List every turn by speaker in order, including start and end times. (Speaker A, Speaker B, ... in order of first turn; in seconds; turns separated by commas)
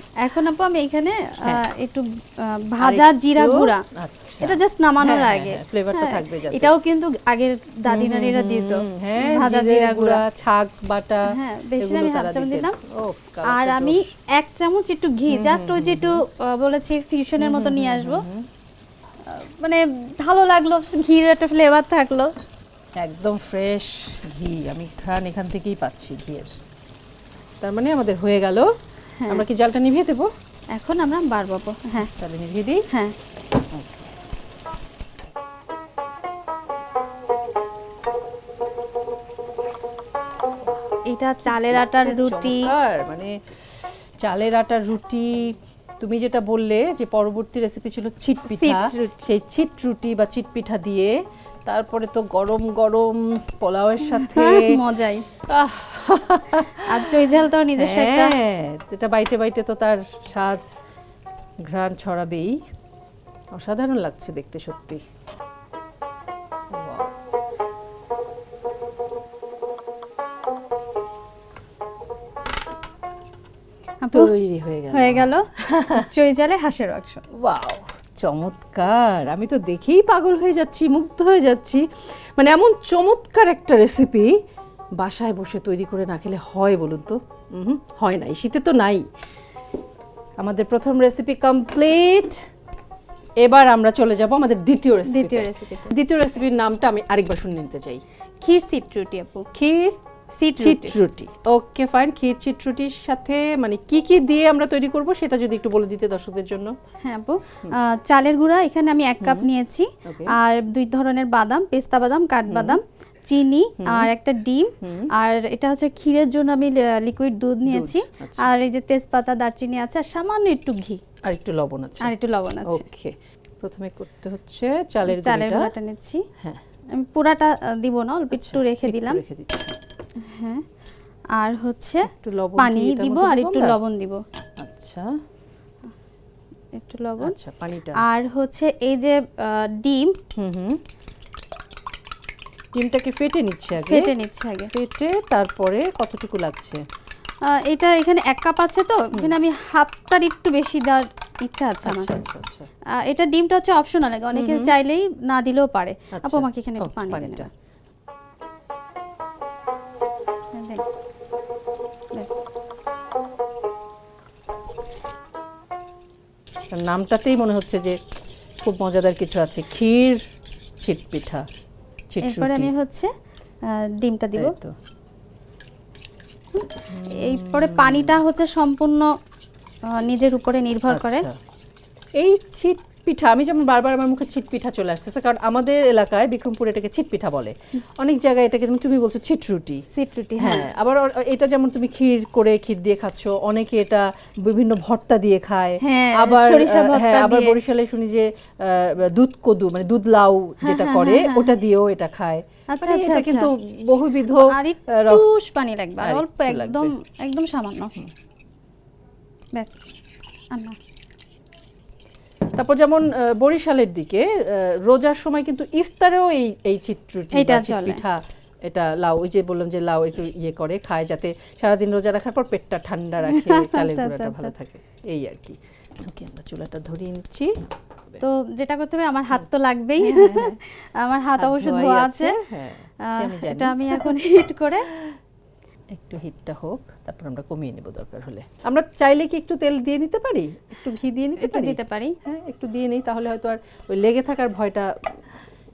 Speaker A: 0.2-3.8, Speaker B: 2.8-6.7, Speaker A: 4.4-10.2, Speaker B: 7.9-14.1, Speaker A: 11.3-12.8, Speaker A: 13.4-18.2, Speaker B: 15.3-16.2, Speaker B: 17.4-18.5, Speaker A: 19.2-22.3, Speaker B: 23.0-26.5, Speaker B: 27.6-28.7, Speaker A: 29.2-29.4, Speaker B: 29.3-30.3, Speaker A: 30.7-32.1, Speaker B: 32.0-32.8, Speaker B: 33.7-34.0, Speaker A: 41.1-42.7, Speaker B: 41.5-43.4, Speaker B: 44.2-51.1, Speaker A: 48.5-49.2, Speaker B: 51.6-54.8, Speaker A: 54.0-55.2, Speaker B: 55.5-60.6, Speaker A: 56.8-58.4, Speaker B: 61.6-62.6, Speaker B: 63.5-65.0, Speaker B: 66.7-67.1, Speaker A: 74.0-74.3, Speaker B: 74.1-76.1, Speaker A: 74.9-77.2, Speaker B: 77.3-84.4, Speaker B: 85.0-89.1, Speaker B: 90.4-92.4, Speaker B: 93.4-98.0, Speaker A: 95.0-96.0, Speaker A: 98.4-99.5, Speaker B: 99.5-100.0, Speaker A: 100.3-101.0, Speaker B: 100.6-106.7, Speaker A: 107.0-121.0, Speaker B: 109.2-109.5, Speaker B: 110.0-110.3, Speaker B: 112.5-112.8, Speaker B: 113.8-114.1, Speaker B: 114.8-115.1, Speaker B: 117.6-118.5, Speaker B: 121.2-122.1, Speaker A: 122.0-122.8, Speaker B: 122.7-125.7, Speaker A: 125.1-126.2, Speaker A: 126.9-129.2, Speaker B: 128.3-129.8, Speaker A: 130.2-130.6, Speaker A: 131.3-134.2, Speaker B: 132.1-133.8, Speaker B: 134.6-135.1, Speaker A: 136.7-137.3, Speaker B: 137.2-138.0, Speaker A: 138.0-140.2, Speaker B: 140.3-140.8, Speaker B: 142.7-144.1, Speaker A: 143.8-144.7, Speaker B: 144.7-146.8, Speaker A: 147.5-152.2, Speaker B: 151.8-152.7, Speaker A: 153.0-157.5, Speaker B: 154.3-154.7, Speaker B: 156.2-157.4, Speaker A: 160.5-160.8, Speaker A: 162.1-162.4, Speaker B: 166.7-168.0, Speaker B: 168.6-170.2, Speaker B: 170.8-171.4, Speaker B: 172.1-172.7, Speaker A: 172.2-173.1, Speaker A: 173.7-174.6, Speaker B: 174.3-174.7, Speaker A: 176.6-179.1, Speaker B: 176.9-178.2, Speaker A: 179.9-181.3, Speaker B: 180.9-181.3, Speaker B: 182.2-189.8, Speaker A: 189.9-190.7, Speaker B: 190.4-205.2, Speaker A: 195.8-197.6, Speaker A: 200.6-201.5, Speaker A: 202.7-203.5, Speaker A: 204.4-207.9, Speaker B: 206.0-206.9, Speaker B: 212.5-227.5, Speaker A: 217.3-218.0, Speaker A: 223.2-224.5, Speaker A: 228.2-232.3, Speaker B: 230.0-230.6, Speaker B: 231.4-234.1, Speaker A: 233.0-234.9, Speaker B: 234.9-235.2, Speaker B: 235.9-245.1, Speaker A: 241.4-242.2